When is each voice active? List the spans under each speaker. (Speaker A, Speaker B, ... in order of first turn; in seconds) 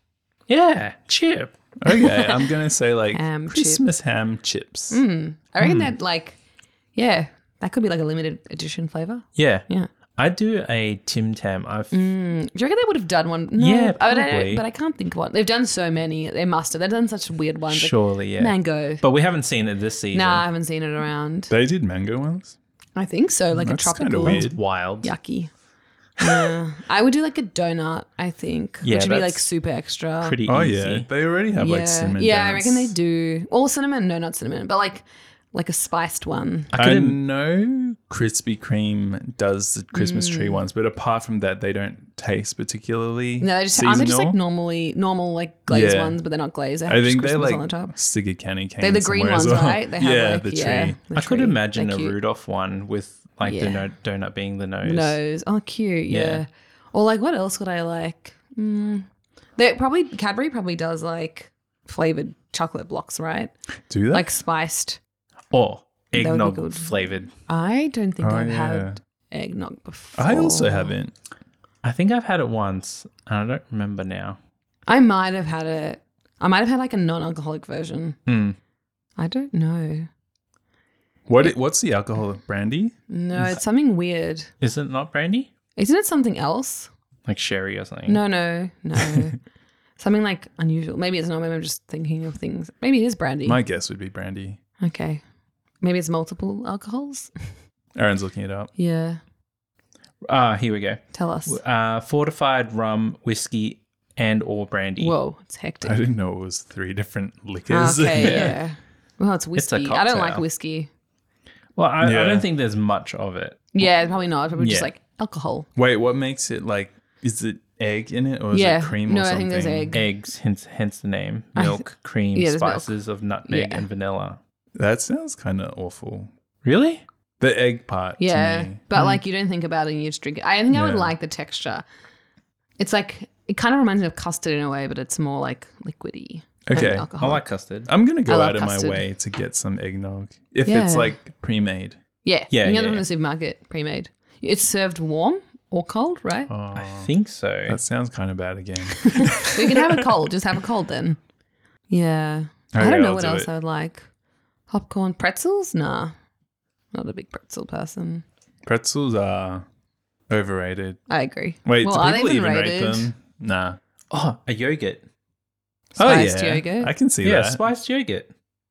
Speaker A: 0.5-1.5, 5.6-5.9, 9.3-9.7, 10.2-11.9, 13.6-14.6, 17.7-20.4, 24.2-25.1, 28.8-29.4, 30.2-31.1, 36.7-37.2, 51.1-55.2, 56.1-56.4, 65.5-67.3, 71.8-74.4, 78.3-78.6, 84.6-85.5, 87.2-88.2, 100.2-105.1, 108.2-108.5, 109.5-110.4, 111.8-113.8, 114.6-114.9, 119.9-124.4, 126.6-127.0, 137.2-137.9, 142.5-143.1, 146.7-147.8, 164.1-165.0, 167.2-168.3
Speaker B: 1.8-5.0, 21.5-22.6, 23.5-24.6, 30.4-32.9, 36.8-44.4, 45.7-46.2, 46.9-51.0, 63.9-64.3, 68.2-69.0, 70.2-71.1, 81.3-82.9, 93.5-94.6, 98.0-98.7, 105.8-108.5, 112.0-112.5, 115.8-120.0, 124.8-126.3, 127.4-128.8, 130.7-131.1, 136.7-137.1, 137.8-142.0, 146.5-147.1, 147.7-150.0, 152.7-153.5, 158.6-159.6, 160.3-161.0, 161.6-163.8, 166.0-167.6
Speaker C: 1.9-2.3, 3.1-3.8, 4.9-6.4, 6.9-9.9, 11.9-19.0, 20.1-21.5, 22.9-25.5, 26.2-30.4, 31.6-36.7, 39.9-40.6, 43.4-47.9, 48.8-52.1, 53.4-53.9, 54.8-63.5, 64.1-65.0, 66.1-71.0, 74.9-78.2, 79.2-80.1, 83.1-84.5, 85.8-86.9, 88.1-89.4, 90.0-93.6, 94.8-95.2, 95.8-97.3, 98.8-99.2, 101.1-101.6, 105.0-106.0, 107.7-110.9, 113.7-115.7, 118.5-120.0, 121.5-122.9, 123.5-123.8, 128.2-131.8, 132.8-137.5, 138.2-139.0, 140.7-141.2, 142.2-146.5, 149.0-151.2, 151.9-154.1, 154.7-156.1, 156.9-158.2, 161.1-163.1, 165.9-166.9